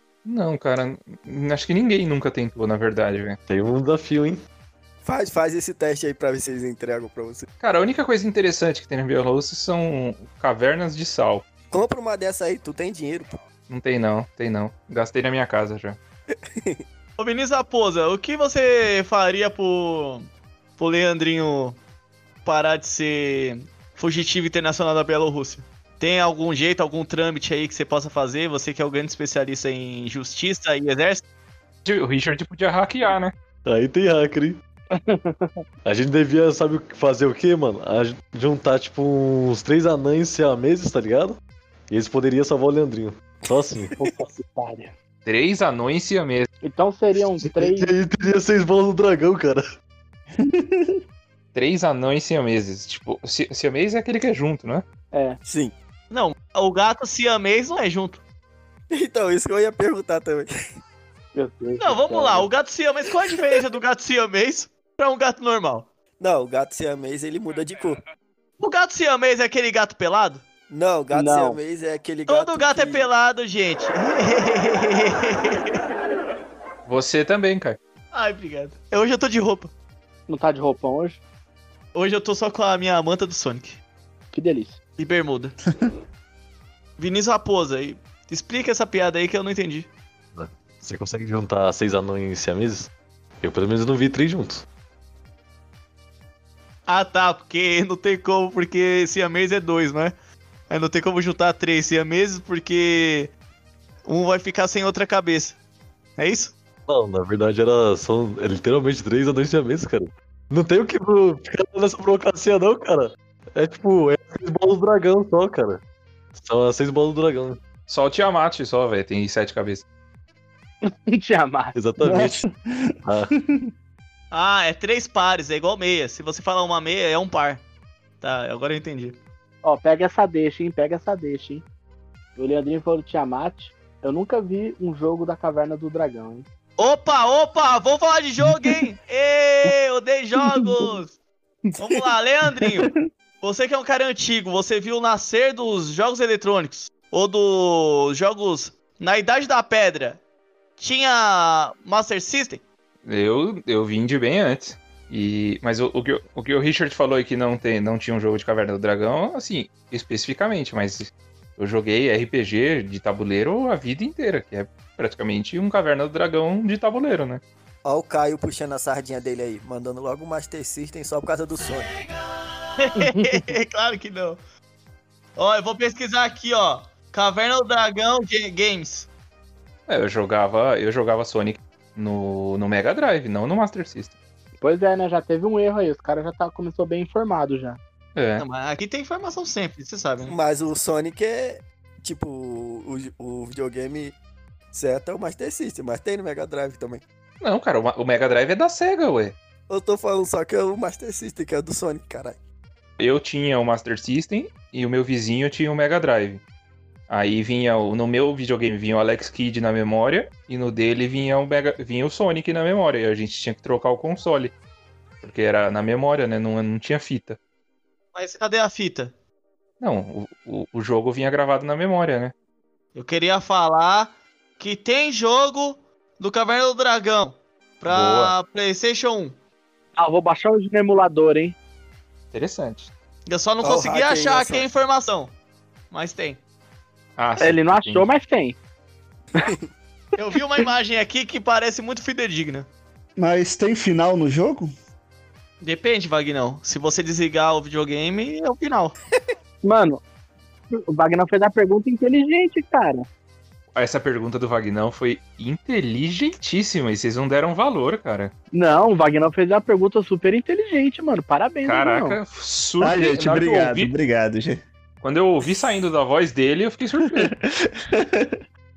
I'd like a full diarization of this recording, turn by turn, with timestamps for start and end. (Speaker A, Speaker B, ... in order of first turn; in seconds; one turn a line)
Speaker A: 0.2-3.4
Speaker B: 3.5-4.4
Speaker C: 5.0-7.5
Speaker A: 7.6-11.5
Speaker C: 11.7-13.4
Speaker A: 13.7-16.0
Speaker C: 16.6-16.8
Speaker D: 17.2-20.3
Speaker D: 20.8-21.8
Speaker D: 22.4-31.2
Speaker A: 31.8-33.3
Speaker B: 33.6-34.6
Speaker E: 35.0-35.5
Speaker B: 35.8-41.4
Speaker B: 41.9-43.9
Speaker E: 44.0-44.9
Speaker A: 45.2-46.5
Speaker E: 46.6-47.9
Speaker B: 47.4-49.6
Speaker F: 50.4-51.0
Speaker A: 51.5-54.8
Speaker E: 55.1-55.4
Speaker C: 55.4-55.7
Speaker D: 56.1-58.2
Speaker C: 58.9-60.5
Speaker E: 61.3-62.5
Speaker D: 61.8-65.9
Speaker C: 66.2-68.0
Speaker D: 68.6-70.4
Speaker C: 70.7-73.1
Speaker E: 71.1-71.6
Speaker D: 72.3-75.8
Speaker A: 76.9-77.8
Speaker D: 78.1-79.7
Speaker E: 80.3-81.2
Speaker D: 81.9-83.8
Speaker E: 84.3-84.8
Speaker D: 85.0-85.5
Speaker D: 87.0-89.9
Speaker B: 90.3-94.6
Speaker D: 96.9-100.1
Speaker D: 100.7-103.3
Speaker D: 104.0-105.6
Speaker D: 106.2-106.5
Speaker B: 106.9-115.8
Speaker B: 116.3-117.6
Speaker A: 117.9-119.8
Speaker E: 120.9-121.7
Speaker B: 121.7-122.4
Speaker F: 122.0-122.9
Speaker B: 123.0-123.3
Speaker D: 124.3-127.6
Speaker D: 128.2-129.2
Speaker E: 129.6-131.6
Speaker E: 132.3-136.4
Speaker D: 136.8-141.1
Speaker D: 141.8-150.2
Speaker D: 150.8-152.6
Speaker A: 153.0-167.4
Speaker C: 167.8-171.9
Speaker D: 172.8-174.4
Speaker E: 173.0-173.4
Speaker D: 175.3-179.1
Speaker A: 179.9-184.1
Speaker E: 184.6-187.8
Speaker A: 188.1-188.4
Speaker D: 188.4-190.3
Speaker C: 190.2-194.2
Speaker C: 194.7-197.0
Speaker A: 197.4-199.3
Speaker C: 199.7-202.4
Speaker A: 203.0-206.4
Speaker A: 207.1-214.5
Speaker A: 215.2-217.4
Speaker D: 218.1-219.1
Speaker A: 219.8-222.3
Speaker D: 222.9-229.3
Speaker A: 227.9-228.3
Speaker E: 230.0-231.6
Speaker A: 232.3-232.9
Speaker D: 233.3-235.3
Speaker C: 233.6-234.6
Speaker D: 235.9-236.4
Speaker A: 237.2-238.1
Speaker E: 237.4-238.6
Speaker D: 240.2-242.7
Speaker F: 243.2-244.7
Speaker D: 245.6-248.9
Speaker E: 249.6-250.0
Speaker E: 250.7-253.1
Speaker A: 253.7-258.3
Speaker E: 258.5-262.2
Speaker A: 261.6-263.9
Speaker F: 262.8-264.6
Speaker A: 265.0-267.3
Speaker F: 267.0-268.3